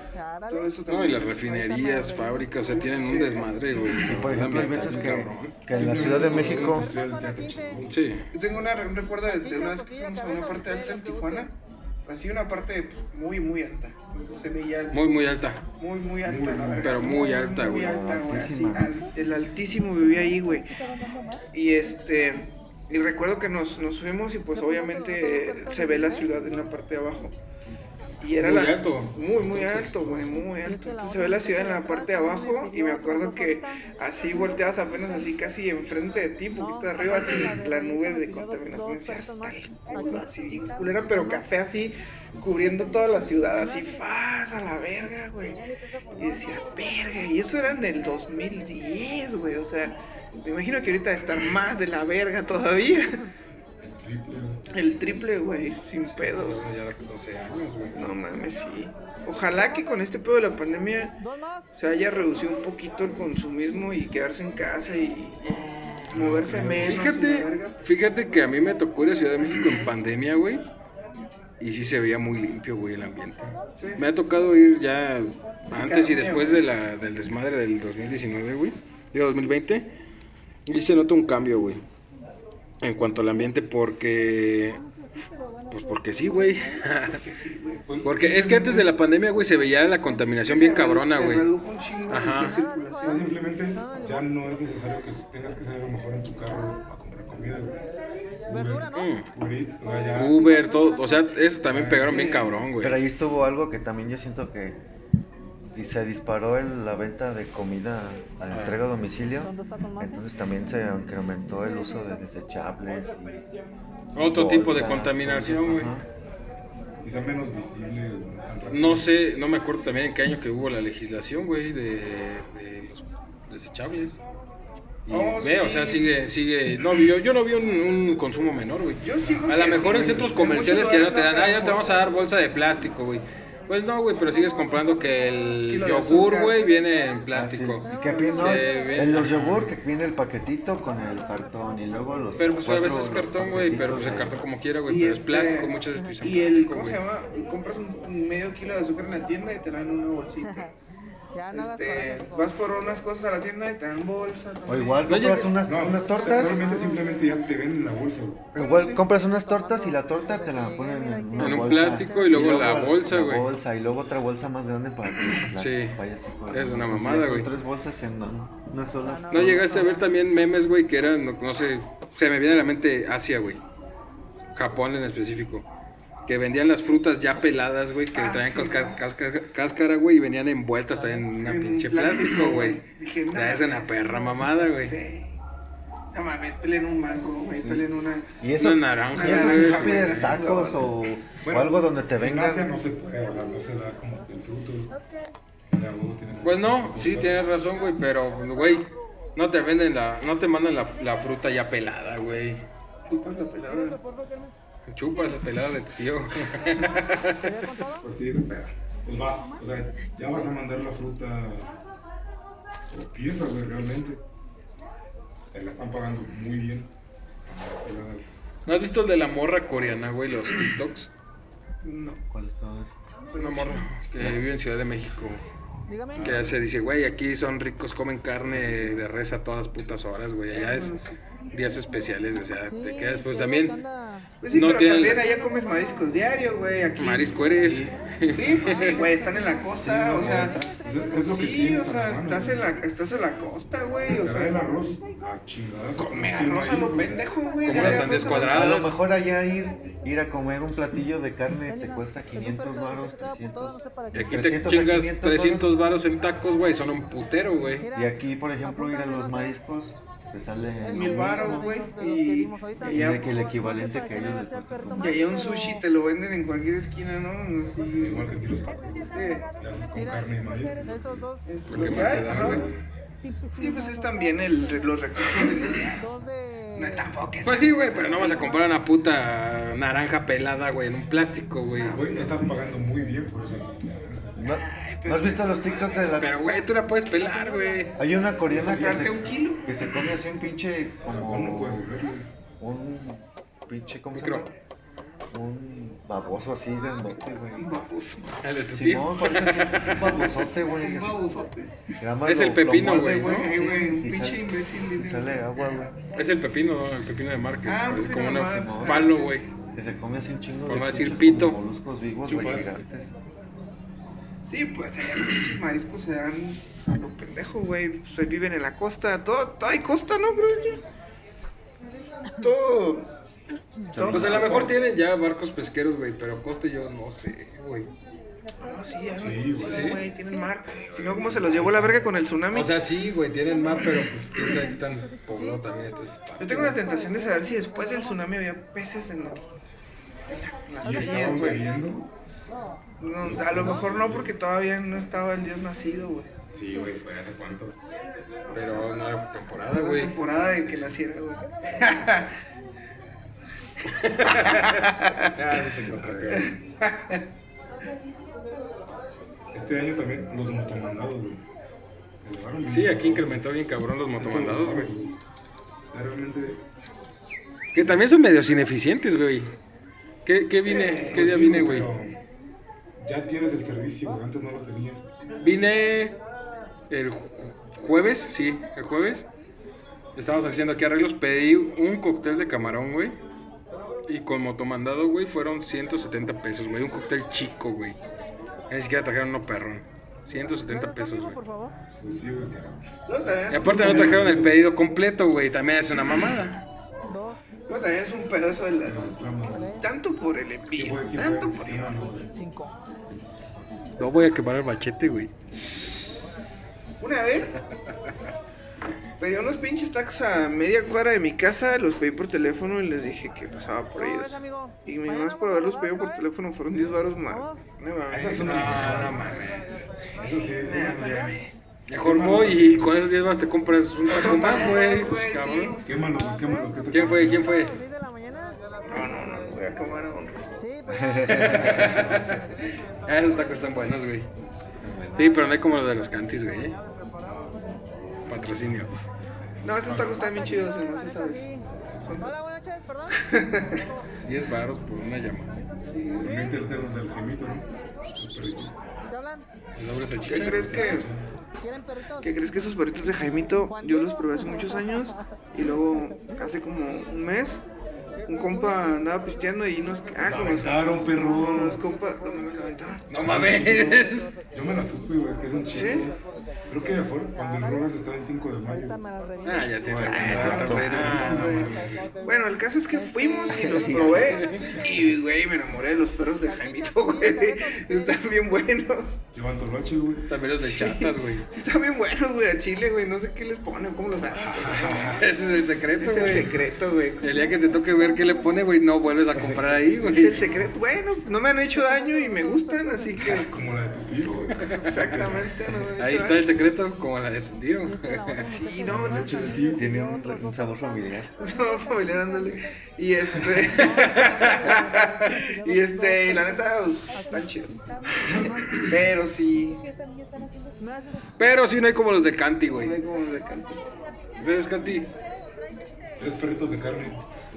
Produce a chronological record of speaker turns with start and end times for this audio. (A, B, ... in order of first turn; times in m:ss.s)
0:00.5-0:01.7 A
0:00.9-0:06.6 B
0:02.7-0:03.5 A
0:04.0-0:06.9 C
0:05.7-0:08.0 D
0:06.9-0:07.8 E
0:07.9-0:08.2 B
0:08.3-0:11.5 A
0:09.5-0:11.3 E
0:12.0-0:15.0 A
0:14.9-0:15.6 B
0:15.8-0:20.7 A
0:16.2-0:17.1 D
0:16.8-0:18.0 B
0:17.7-0:19.0 C
0:21.5-0:27.4 A
0:25.4-0:26.1 E
0:28.2-0:53.2 A
0:28.4-0:30.3 B
0:31.2-0:31.8 E
0:53.8-0:54.6 D
0:54.7-0:56.6 A
0:56.1-0:58.0 B
0:57.9-1:01.2 A
1:01.7-1:05.6 A
1:05.4-1:06.2 B
1:06.1-1:07.0 D
1:06.1-1:07.8 A
1:06.8-1:10.7 B
1:11.6-1:19.9 B
1:13.8-1:14.0 A
1:15.7-1:16.6 A
1:20.6-1:21.8 B
1:22.8-1:24.8 B
1:25.7-1:27.2 B
1:27.0-1:28.9 A
1:27.9-1:31.5 B
1:30.3-1:33.4 A
1:32.1-1:32.6 B
1:33.0-1:37.8 D
1:38.4-1:40.5 D
1:38.9-1:39.3 B
1:40.1-1:43.0 B
1:41.0-1:41.2 E
1:41.6-1:42.3 D
1:42.0-1:42.5 A
1:42.8-1:44.8 C
1:45.6-1:53.4 C
1:48.5-1:48.8 B
1:49.5-1:50.0 E
1:54.1-1:55.9 B
1:54.1-1:56.1 C
1:57.0-1:59.1 D
1:58.7-2:04.2 B
2:05.0-2:19.7 B
2:05.1-2:06.1 A
2:09.0-2:12.0 A
2:09.2-2:10.3 D
2:15.7-2:16.5 A
2:17.3-2:24.4 C
2:17.9-2:18.6 A
2:22.4-2:27.0 B
2:24.8-2:30.7 A
2:31.4-2:32.5 E
2:31.5-2:35.1 A
2:34.7-2:36.7 C
2:35.0-2:35.6 B
2:35.6-2:38.5 D
2:38.5-2:49.8 C
2:38.5-2:39.0 A
2:40.4-2:42.2 E
2:41.4-2:43.5 B
2:45.5-2:47.5 B
2:49.1-2:50.0 E
2:49.3-2:53.6 B
2:54.5-2:55.7 B
2:56.2-3:05.0 B
2:58.1-2:59.0 A
3:01.1-3:05.4 A
3:06.1-3:08.4 A
3:07.5-3:07.8 C
3:08.4-3:12.7 C
3:08.6-3:10.2 B
3:09.1-3:10.9 A
3:10.1-3:10.4 D
3:11.4-3:15.0 D
3:15.7-3:17.4 D
3:16.4-3:22.7 B
3:23.1-3:24.0 A
3:24.9-3:27.8 B
3:27.6-3:28.0 E
3:28.0-3:31.8 D
3:32.9-3:34.2 D
3:35.5-3:36.9 D
3:37.4-3:38.3 D
3:38.6-3:41.1 B
3:41.8-3:42.2 A
3:42.3-3:42.9 C
3:43.3-3:43.9 A
3:43.4-3:45.4 B
3:45.9-3:46.1 E
3:46.1-3:46.6 D
3:46.2-3:51.0 B
3:50.5-3:51.2 A
3:51.5-3:53.8 B
3:53.3-3:54.2 E
3:54.4-3:57.4 A
3:54.5-3:55.3 B
3:57.0-3:59.1 B
3:57.6-3:57.9 C
3:58.3-4:04.8 A
3:59.7-4:00.8 C
4:00.1-4:02.7 D
4:04.0-4:07.2 D
4:06.0-4:08.7 A
4:07.6-4:09.0 B
4:07.6-4:15.7 C
4:14.1-4:17.9 B
4:17.9-4:21.7 C
4:20.9-4:23.5 A
4:21.1-4:22.9 E
4:22.8-4:25.3 C
4:24.8-4:25.1 E
4:25.0-4:28.4 A
4:27.9-4:32.8 D
4:29.1-4:29.4 A
4:31.4-4:32.7 A
4:31.7-4:32.8 B
4:33.5-4:36.1 A
4:36.1-4:36.9 E
4:36.7-4:38.6 A
4:37.4-4:42.0 B
4:41.8-4:42.1 A
4:41.9-4:44.4 D
4:44.4-4:46.4 C
4:44.4-4:46.1 A
4:46.1-4:48.0 B
4:48.0-4:51.9 C
4:48.5-4:49.3 D
4:48.6-4:49.7 A
4:51.1-4:52.3 D
4:52.6-4:54.5 C
4:54.1-4:54.4 B
4:55.3-4:57.7 C
4:57.5-4:58.4 A
4:58.4-5:00.5 B
4:58.7-5:01.2 C
5:00.8-5:01.9 A
5:02.0-5:05.9 C
5:02.2-5:03.5 B
5:02.9-5:06.0 A
5:06.1-5:09.5 B
5:07.6-5:09.4 A
5:08.4-5:09.1 C
5:09.7-5:13.1 C
5:10.6-5:11.6 B
5:12.2-5:12.8 D
5:14.5-5:20.8 A
5:22.4-5:23.1 A
5:23.9-5:24.7 C
5:23.9-5:24.7 A
5:24.1-5:27.9 B
5:28.6-5:32.7 A
5:29.2-5:29.9 D
5:29.6-5:30.0 B
5:30.6-5:32.1 D
5:32.5-5:36.8 B
5:36.4-5:39.5 A
5:40.3-5:41.6 A
5:40.8-5:42.1 D
5:43.0-5:46.3 A
5:43.2-5:44.3 D
5:46.5-5:47.8 D
5:48.5-5:48.9 A
5:48.5-5:50.7 B
5:49.6-5:52.3 A
5:53.9-5:56.5 B
5:54.0-5:55.3 A
5:55.8-5:56.6 D
5:56.3-5:57.2 A
5:59.5-6:01.5 D
6:02.2-6:03.5 D
6:02.6-6:04.9 B
6:04.2-6:05.2 D
6:05.9-6:06.6 D
6:07.7-6:09.5 B
6:10.2-6:11.9 B
6:10.6-6:11.2 A
6:11.1-6:12.2 D
6:13.0-6:15.1 D
6:15.4-6:16.2 B
6:16.9-6:19.3 B
6:20.1-6:23.2 B
6:24.0-6:28.0 B
6:28.7-6:31.4 B
6:30.9-6:31.7 E
6:32.0-6:32.9 D
6:33.0-6:34.5 A
6:33.5-6:36.6 B
6:33.7-6:34.6 D
6:37.7-6:42.0 A
6:38.8-6:39.8 D
6:40.7-6:42.4 D
6:42.4-6:42.7 E
6:44.0-6:45.3 B
6:47.0-6:47.6 A
6:49.2-6:58.9 A
6:54.0-6:56.0 E
6:58.1-6:59.2 D
6:58.4-7:00.0 B
7:00.1-7:01.5 A
7:00.2-7:01.4 D
7:01.9-7:05.8 B
7:02.0-7:03.0 D
7:04.1-7:05.8 A
7:05.8-7:07.5 D
7:06.9-7:07.8 B
7:08.0-7:08.5 E
7:08.8-7:10.5 A
7:10.6-7:11.2 E
7:10.9-7:11.7 C
7:11.3-7:14.3 B
7:11.5-7:12.4 D
7:14.8-7:15.2 C
7:15.1-7:16.8 B
7:17.2-7:17.7 D
7:18.3-7:19.0 B
7:19.4-7:20.7 D
7:19.6-7:21.5 A
7:21.8-7:22.1 D
7:22.0-7:22.4 A
7:22.4-7:23.1 E
7:23.1-7:23.9 A
7:24.2-7:25.5 B
7:25.8-7:26.4 A
7:26.2-7:28.8 D
7:29.1-7:29.4 E
7:29.7-7:31.0 B
7:30.2-7:31.1 A
7:30.5-7:31.3 D
7:32.2-7:37.6 A
7:38.2-7:43.1 A
7:40.2-7:41.8 D
7:43.1-7:44.3 B
7:43.2-7:49.0 D
7:45.7-7:46.1 A
7:49.0-7:49.8 E
7:49.4-7:52.1 B
7:49.8-7:50.9 C
7:50.0-7:59.2 A
7:50.1-7:51.9 D
7:53.2-7:53.7 E
7:53.5-7:54.3 C
7:53.9-7:54.8 B
7:54.6-7:55.1 D
7:56.5-7:58.2 E
7:59.3-8:00.3 D
8:00.3-8:01.5 B
8:00.6-8:05.2 A
8:04.3-8:05.2 D
8:05.2-8:06.6 B
8:06.0-8:07.5 A
8:07.2-8:10.5 B
8:09.5-8:10.7 D
8:10.0-8:13.5 A
8:12.4-8:13.1 E
8:13.2-8:15.9 D
8:14.8-8:16.5 A
8:16.0-8:18.5 B
8:18.0-8:19.2 E
8:18.4-8:19.7 A
8:18.9-8:19.9 D
8:19.7-8:21.3 C
8:21.4-8:29.9 A
8:23.8-8:26.6 E
8:23.8-8:24.5 B
8:28.2-8:28.7 D
8:30.8-8:31.2 E
8:31.4-8:33.0 B
8:32.7-8:33.9 A
8:34.4-8:35.1 B
8:36.2-8:37.3 D